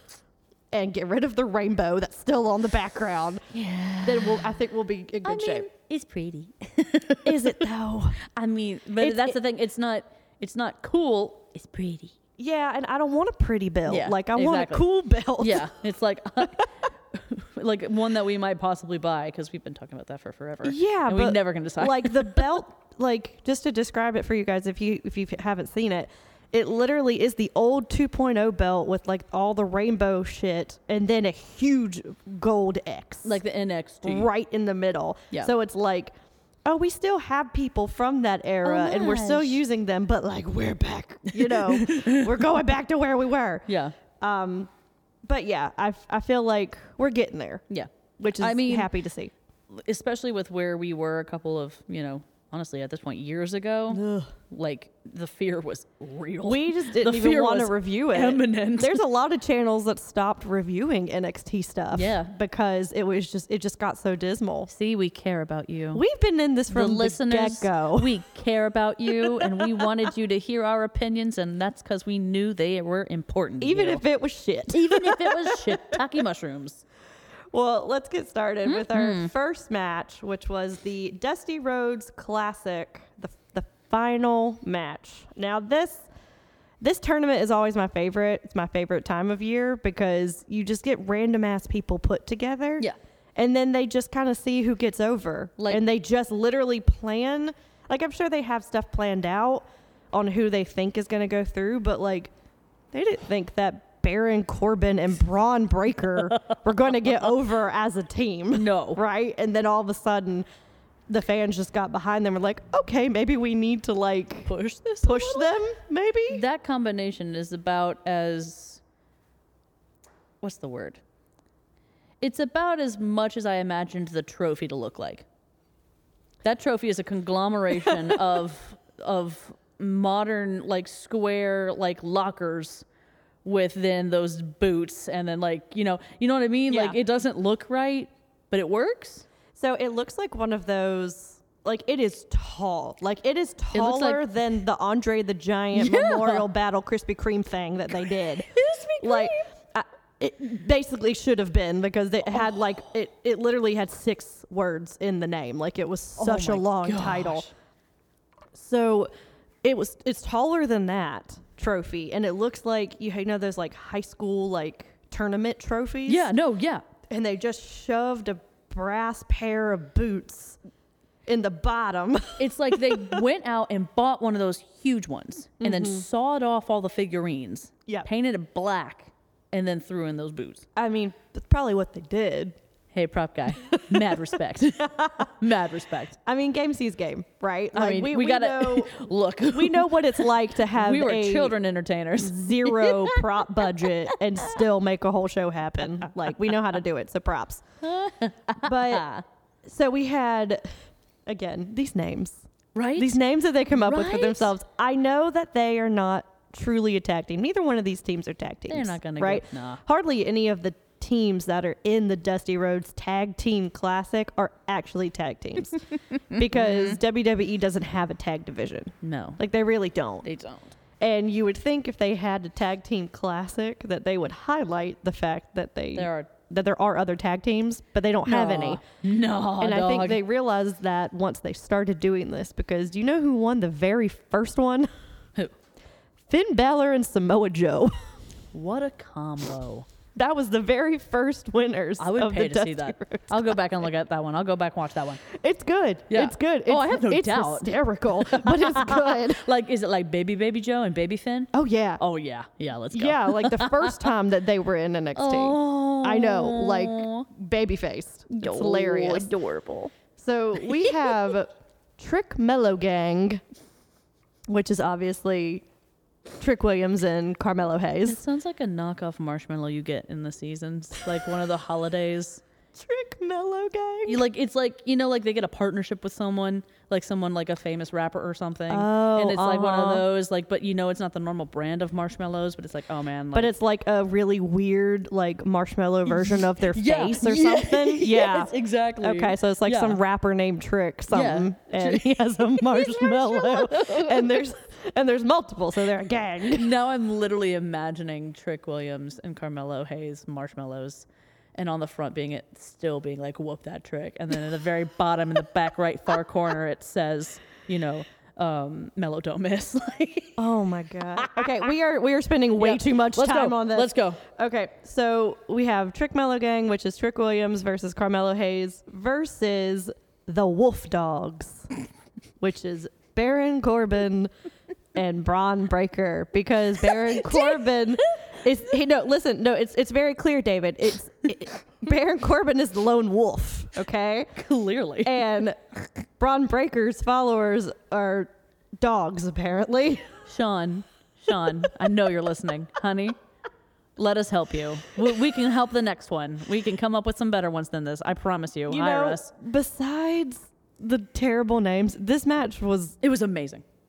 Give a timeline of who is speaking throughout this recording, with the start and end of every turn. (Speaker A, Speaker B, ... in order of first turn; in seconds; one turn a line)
Speaker A: 0.7-3.4
Speaker B: 3.5-4.5
Speaker A: 4.0-5.7
Speaker B: 5.2-7.6
Speaker A: 7.2-8.2
Speaker B: 8.2-12.1
Speaker A: 9.0-9.3
Speaker A: 12.4-15.7
Speaker B: 13.8-14.8
Speaker B: 15.4-22.6
Speaker A: 20.6-33.4
Speaker B: 33.2-34.3
Speaker A: 34.0-36.1
Speaker A: 36.6-43.6
Speaker B: 38.6-39.6
Speaker B: 41.3-42.4
Speaker B: 43.7-43.9
Speaker A: 44.2-44.7
Speaker A: 45.2-47.6
Speaker B: 47.7-48.9
Speaker A: 48.2-49.3
Speaker B: 49.7-59.0
Speaker A: 53.9-54.3
Speaker A: 56.5-64.7
Speaker B: 61.9-62.3
Speaker B: 64.7-66.0
Speaker A: 65.9-68.2
Speaker B: 66.7-74.0
Speaker A: 69.2-70.1
Speaker A: 73.6-76.0
Speaker B: 74.7-76.8
Speaker A: 77.5-86.1
Speaker B: 78.7-79.3
Speaker A: 86.8-102.3
Speaker A: 102.9-110.5
Speaker B: 108.5-109.0
Speaker A: 111.1-114.5
Speaker B: 114.5-115.6
Speaker A: 115.0-116.4
Speaker B: 116.3-118.8
Speaker B: 120.4-121.0
Speaker B: 122.2-125.2
Speaker B: 126.4-132.8
Speaker B: 133.4-139.2
Speaker A: 136.7-137.0
Speaker A: 139.6-148.5
Speaker B: 143.7-144.2
Speaker B: 145.7-146.4
Speaker B: 148.0-149.4
Speaker A: 149.0-157.4
Speaker B: 156.2-157.5
Speaker A: 158.5-159.1
Speaker A: 159.6-166.3
Speaker B: 166.1-166.8
Speaker A: 167.1-170.6
Speaker A: 171.3-173.2
Speaker B: 172.4-180.7
Speaker A: 175.6-176.0
Speaker A: 180.8-182.6
Speaker B: 182.9-186.2
Speaker A: 183.7-184.2
Speaker A: 184.8-185.2
Speaker A: 186.2-188.9
Speaker B: 187.7-194.6
Speaker A: 189.5-191.5
Speaker A: 192.2-197.6
Speaker B: 197.8-199.2
Speaker A: 198.6-199.1
Speaker A: 199.6-200.7
Speaker A: 201.3-202.4
Speaker B: 202.7-203.2
Speaker A: 203.0-220.2
Speaker B: 203.7-204.5
Speaker B: 208.7-209.8
Speaker B: 216.3-217.0
Speaker B: 219.0-219.4
Speaker B: 220.2-220.7
Speaker A: 221.0-228.8
Speaker B: 225.9-226.3
Speaker B: 228.3-230.2
Speaker A: 229.6-234.9
Speaker A: 236.3-237.9
Speaker B: 238.5-239.8
Speaker A: 240.2-243.6
Speaker B: 242.0-245.2
Speaker A: 245.3-249.4
Speaker B: 246.1-254.1
Speaker A: 251.5-252.0
Speaker A: 252.9-259.3
Speaker B: 255.2-257.2
Speaker B: 258.3-259.9
Speaker A: 260.1-263.4
Speaker B: 260.6-261.1
Speaker A: 264.5-265.6
Speaker A: 266.4-268.2
Speaker B: 268.0-272.4
Speaker A: 272.7-274.2
Speaker B: 274.1-283.5
Speaker A: 278.7-280.1
Speaker A: 283.3-296.7
Speaker B: 286.1-290.0
Speaker B: 291.1-294.4
Speaker B: 296.5-310.4
Speaker A: 310.4-321.7
Speaker B: 311.2-311.7
Speaker B: 312.6-314.2
Speaker A: 322.4-324.3
Speaker A: 324.9-334.3
Speaker B: 327.1-327.7
Speaker B: 334.4-335.2
Speaker A: 335.0-335.6
Speaker A: 336.2-340.1
Speaker B: 340.2-343.1
Speaker B: 344.0-349.3
Speaker A: 348.7-353.0
Speaker B: 353.0-353.6